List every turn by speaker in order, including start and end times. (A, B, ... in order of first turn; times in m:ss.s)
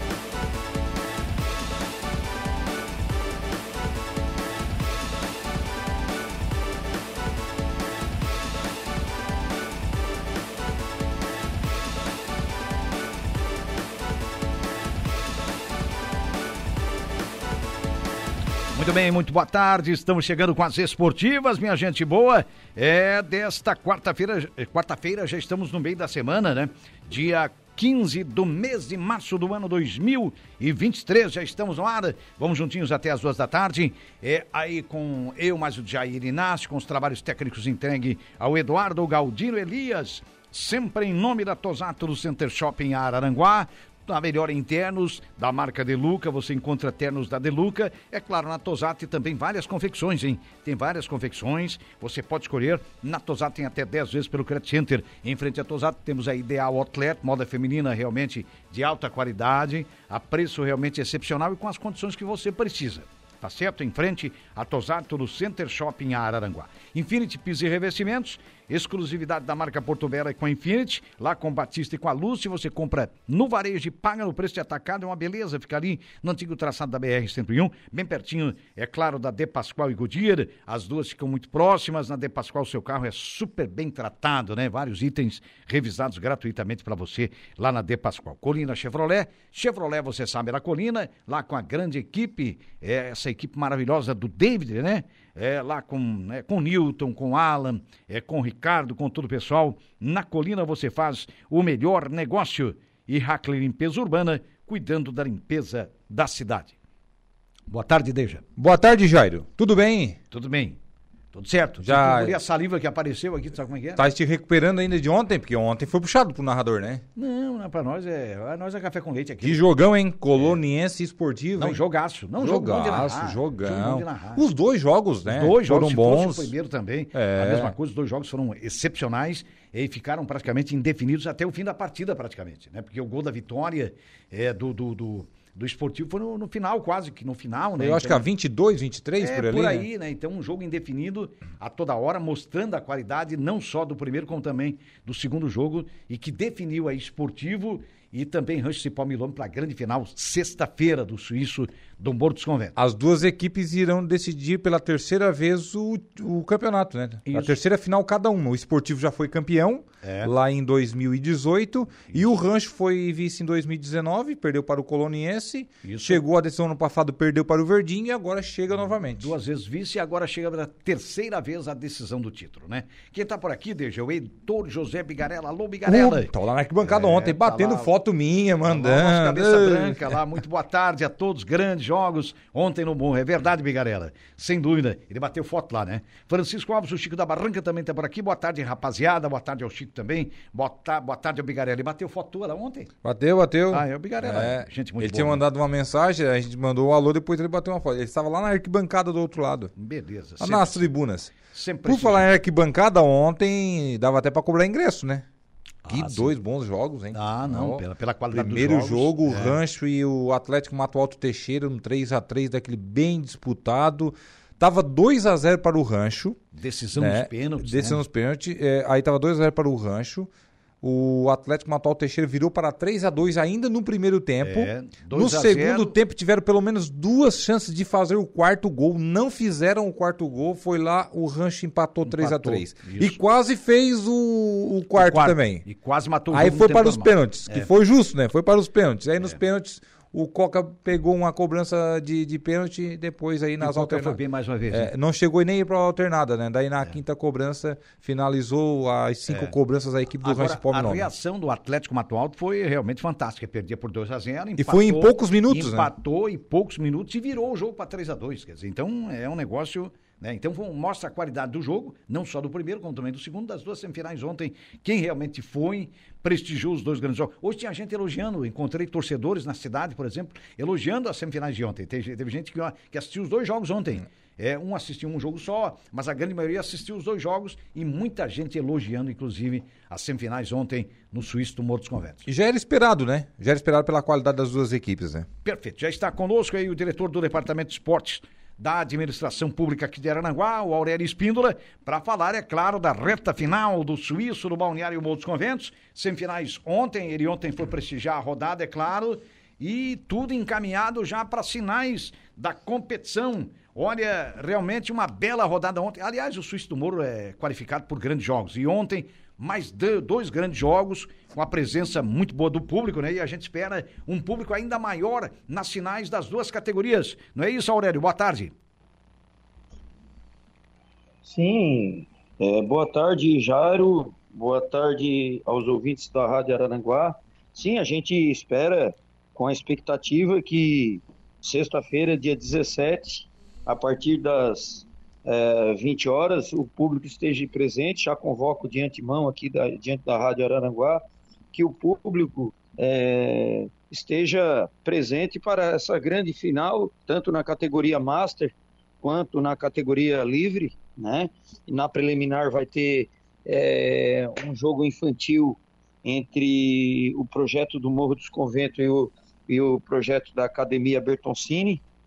0:18.7-1:46.8 A
1:47.7-1:48.4 A
1:48.6-1:50.2 B
1:50.3-1:50.8 A
1:51.3-1:54.1 A
1:51.8-1:52.4 B
1:54.0-1:57.0 B
1:57.2-1:59.6 A
1:59.4-2:01.8 B
2:01.6-2:04.4 A
2:02.4-2:06.5 B
2:05.2-2:18.2 A
2:07.1-2:07.7 B
2:17.8-2:19.8 B
2:19.2-2:32.8 A
2:32.8-2:49.3 B
2:37.3-2:37.6 A
2:40.0-2:40.3 A
2:45.8-2:46.2 A
2:49.2-2:57.9 A
2:55.8-3:00.2 B
2:58.6-3:12.9 A
3:13.0-3:19.7 B
3:13.7-3:15.4 A
3:19.8-3:20.9 A
3:20.4-3:25.2 B
3:21.4-3:22.3 A
3:25.8-3:26.4 A
3:25.9-3:36.4 B
3:27.1-3:29.6 A
3:36.5-3:38.0 A
3:37.0-3:40.3 B
3:40.8-3:55.6 B
3:44.4-3:46.0 A
3:52.0-3:53.2 A
3:54.9-3:57.7 A
3:56.3-4:04.2 B
4:03.6-4:04.9 A
4:04.7-4:11.1 B
4:09.3-4:09.5 A
4:10.2-4:42.2 A
4:14.6-4:15.9 B
4:42.2-4:45.3 B
4:45.4-5:18.5 A
5:21.2-5:41.0 C
5:41.5-6:01.8 C